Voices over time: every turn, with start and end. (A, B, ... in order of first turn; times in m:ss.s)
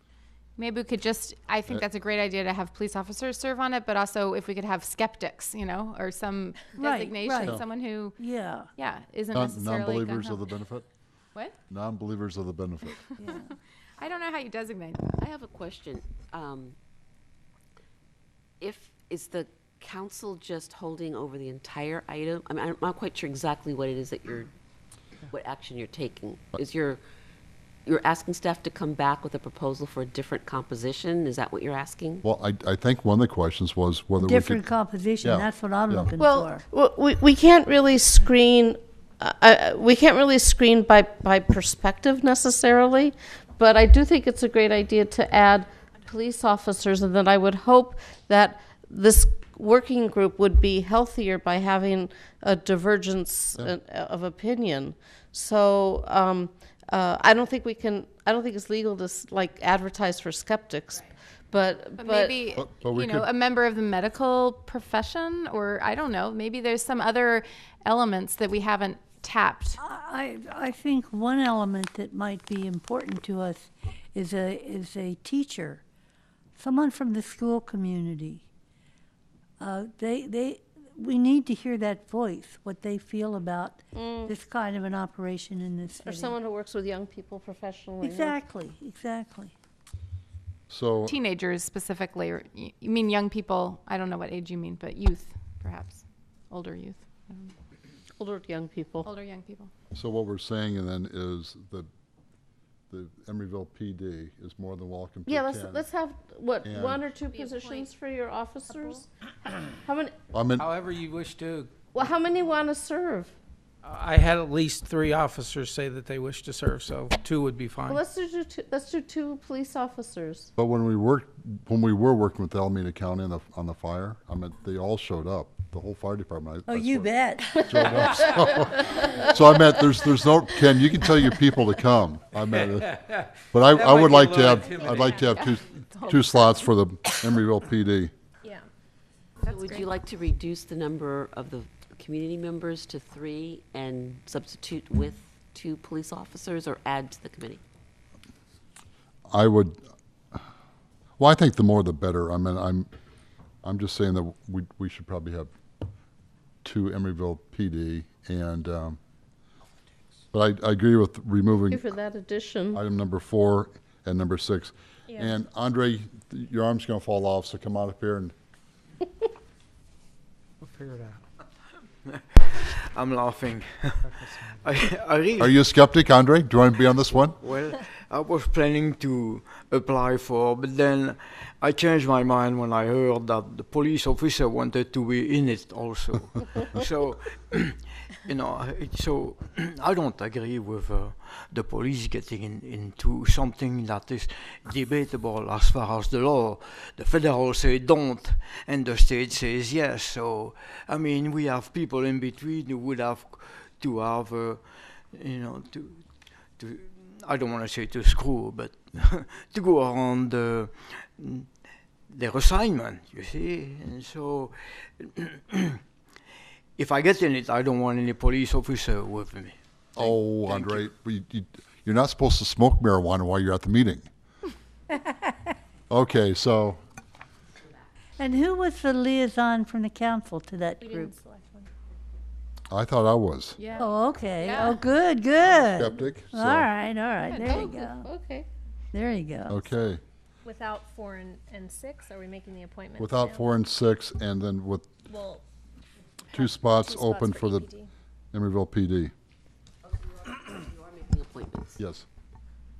0:00.6-0:08.2 A
0:06.8-0:07.6 B
0:08.2-0:08.7 B
0:08.7-0:10.5 A
0:09.3-0:10.9 C
0:11.7-0:13.2 C
0:13.2-0:13.4 B
0:13.2-0:15.2 A
0:15.2-0:16.7 D
0:18.6-0:24.5 D
0:25.3-0:27.0 D
0:27.8-0:32.2 D
0:32.2-0:34.6 C
0:34.2-0:36.6 B
0:35.2-0:36.1 C
0:36.2-0:36.5 A
0:36.7-1:02.5 E
1:02.0-1:09.8 A
1:02.6-1:03.3 C
1:09.8-1:15.8 B
1:16.5-1:18.4 B
1:19.6-1:26.3 B
1:23.9-1:24.3 E
1:26.0-1:28.4 E
1:28.0-1:29.5 B
1:30.7-1:31.2 C
1:31.1-1:37.5 A
1:38.2-1:39.1 E
1:39.0-1:39.7 A
1:39.9-1:41.9 C
1:42.9-1:45.9 C
1:45.3-1:49.1 E
1:46.6-1:47.0 C
1:47.3-1:47.9 F
1:48.7-1:49.0 F
1:49.6-1:50.1 E
1:50.3-1:50.7 C
1:50.6-1:51.7 G
1:51.9-1:53.3 E
1:53.8-1:58.0 G
1:57.8-2:00.5 E
2:00.6-2:07.1 C
2:06.6-2:08.1 B
2:07.6-2:18.1 C
2:07.8-2:09.3 E
2:12.7-2:15.2 G
2:14.8-2:16.6 A
2:18.4-2:18.7 F
2:19.4-2:19.8 A
2:19.4-2:27.6 D
2:29.3-2:29.8 C
2:31.2-2:32.9 C
2:33.6-2:35.5 C
2:36.6-2:39.0 C
2:40.3-2:41.8 C
2:41.7-2:42.8 E
2:42.7-2:48.3 C
2:45.1-2:45.3 F
2:52.0-2:55.6 H
2:55.4-2:57.4 C
2:57.1-3:31.6 H
3:32.1-3:35.8 H
3:36.8-3:40.9 H
3:40.0-3:44.1 C
3:45.9-3:46.8 C
3:48.2-3:51.1 B
3:50.8-3:51.7 F
3:52.7-3:53.6 C
3:53.6-3:54.8 A
3:53.8-3:58.0 B
3:55.6-3:56.7 C
3:57.4-3:58.5 E
3:58.9-3:59.6 B
3:59.5-4:00.0 C
4:00.4-4:03.5 F
4:03.0-4:04.9 C
4:05.1-4:05.4 F
4:06.3-4:07.7 C
4:06.3-4:07.9 F
4:08.3-4:09.1 C
4:10.4-4:11.8 D
4:11.8-4:12.0 C